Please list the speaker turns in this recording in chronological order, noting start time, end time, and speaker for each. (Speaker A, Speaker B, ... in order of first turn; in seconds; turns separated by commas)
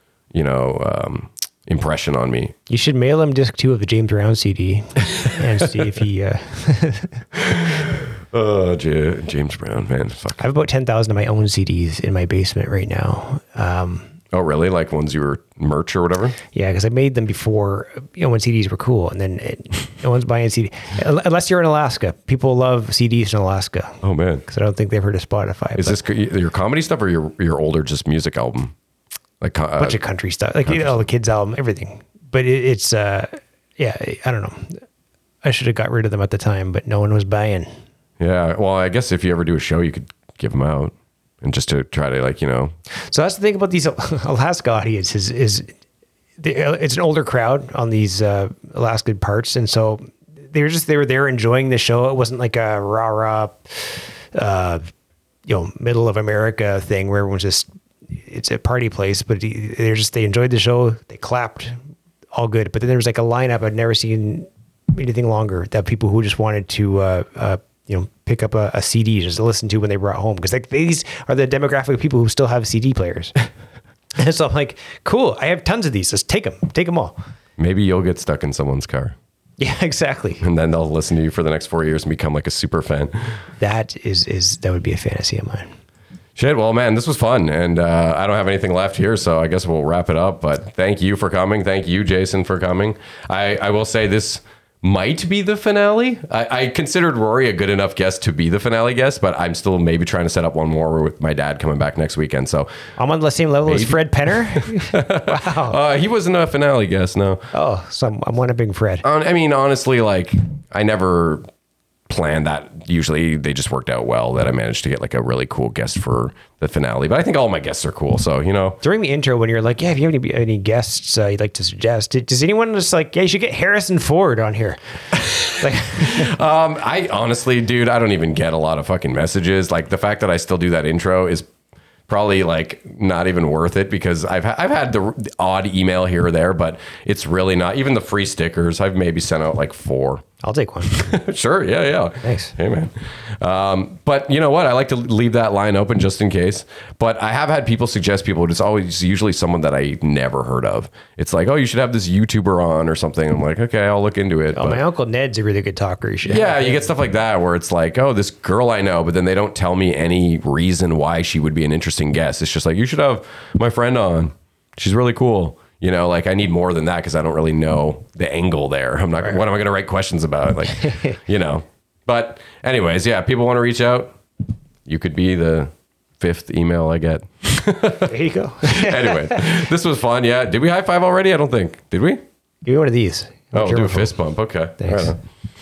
Speaker A: 0.3-2.5, Speaker B: 2.7-7.2, Speaker A: 7.5-10.4, Speaker B: 10.4-14.1, Speaker A: 14.3-16.4, Speaker B: 16.5-26.0, Speaker A: 24.0-24.4, Speaker A: 25.8-28.7, Speaker A: 29.4-30.0, Speaker B: 29.8-34.8, Speaker A: 30.7-31.0, Speaker B: 35.4-37.7, Speaker A: 38.2-42.7, Speaker B: 42.9-45.7, Speaker B: 46.4-54.9, Speaker B: 55.5-61.8, Speaker B: 62.3-73.3, Speaker B: 74.2-77.2, Speaker A: 77.6-79.1, Speaker B: 79.6-80.4, Speaker A: 80.4-83.4, Speaker B: 83.6-85.7, Speaker A: 86.3-102.7, Speaker B: 103.0-105.8, Speaker A: 103.7-107.5, Speaker B: 107.5-109.0, Speaker A: 109.0-111.5, Speaker A: 112.1-118.8, Speaker B: 118.8-124.8, Speaker A: 125.1-131.5, Speaker B: 125.5-126.3, Speaker A: 132.1-140.2, Speaker B: 140.4-141.1, Speaker A: 140.8-154.8, Speaker B: 142.2-142.5, Speaker B: 154.5-156.9, Speaker A: 156.2-174.2, Speaker A: 174.8-182.2, Speaker B: 178.1-179.4, Speaker B: 182.6-184.1, Speaker A: 183.5-185.2, Speaker B: 184.8-185.1